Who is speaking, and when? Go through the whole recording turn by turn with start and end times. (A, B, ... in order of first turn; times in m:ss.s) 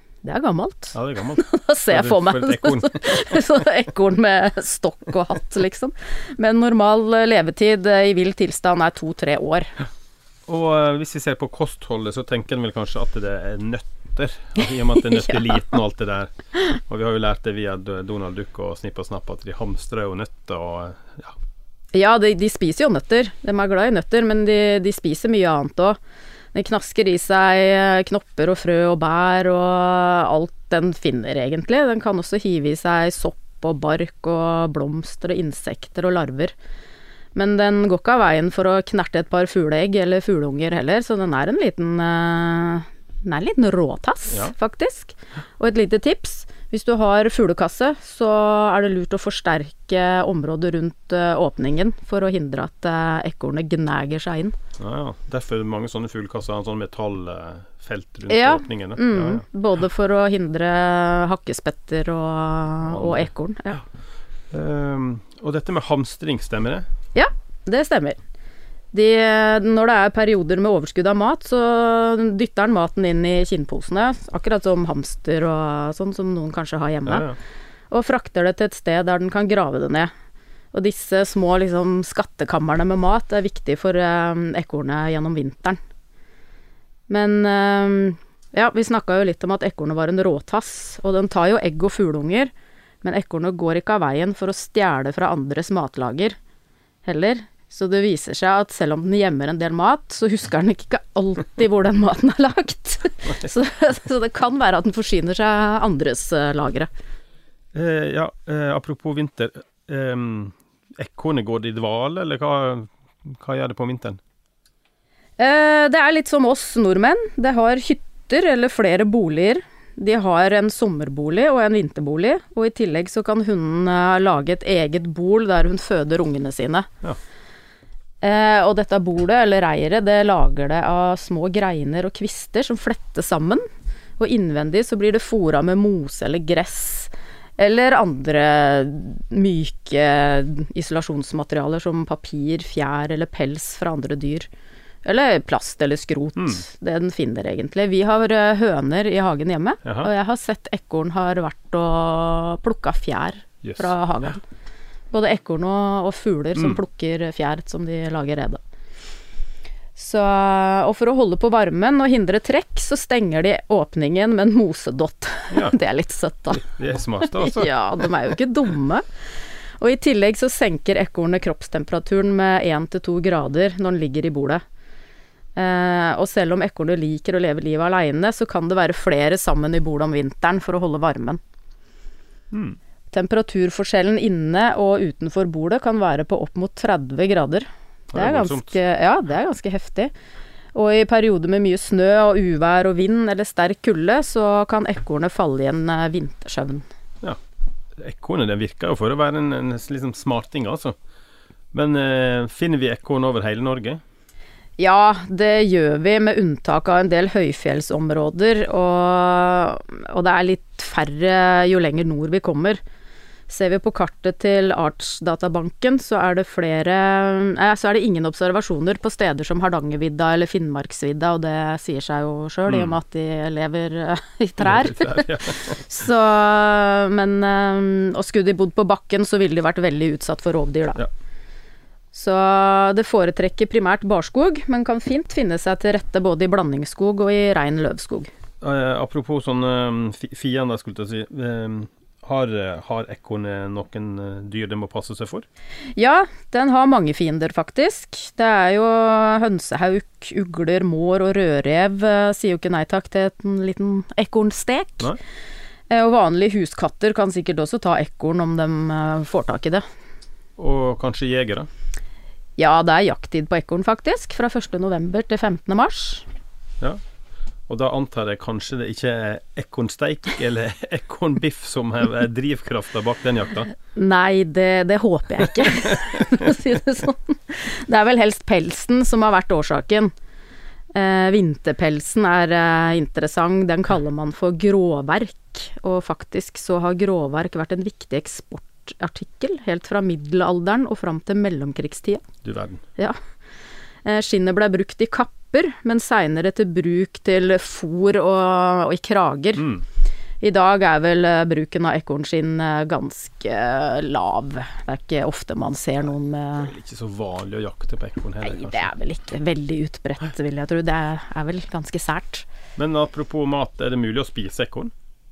0:00.2-0:09.7 A
0:00.9-0:03.0 B
0:10.5-0:21.3 B
0:15.1-0:15.4 A
0:21.9-0:26.0 A
0:26.5-0:36.5 A
0:37.4-0:54.5 A
0:54.8-0:59.4 B
0:58.3-1:03.8 A
1:02.9-1:03.3 B
1:04.5-1:06.9 B
1:07.1-1:08.2 A
1:08.9-1:17.3 A
1:17.1-1:17.4 B
1:17.9-1:20.1 A
1:20.7-1:25.8 A
1:27.1-1:32.5 A
1:33.0-1:36.4 A
1:37.0-1:46.9 A
1:47.8-1:54.2 B
1:55.4-2:06.9 A
2:08.2-2:13.6 A
2:14.2-2:24.5 A
2:25.0-2:34.4 A
2:33.6-2:33.9 B
2:35.1-2:38.6 A
2:40.0-2:46.6 A
2:46.6-2:47.7 B
2:47.3-2:49.0 A
2:49.8-2:54.6 A
2:55.6-3:01.4 A
3:02.5-3:02.8 B
3:03.1-3:10.1 A
3:08.1-3:08.8 B
3:10.7-3:16.8 A
3:18.0-3:21.0 B
3:21.7-3:24.0 B
3:24.8-3:32.8 A
3:33.5-3:51.0 A
3:42.7-3:43.0 B
3:44.6-3:45.8 B
3:52.1-3:58.3 A
3:58.6-4:05.5 B
4:06.0-4:15.1 A
4:15.9-4:19.8 A
4:20.6-4:21.7 B
4:22.6-4:26.3 A
4:27.7-4:33.7 B
4:34.0-4:40.1 A
4:41.0-4:52.2 A
4:52.4-4:52.8 B
4:54.0-4:59.7 A
5:00.4-5:06.7 A
5:06.6-5:08.9 B
5:08.4-5:12.5 A
5:12.8-5:14.9 B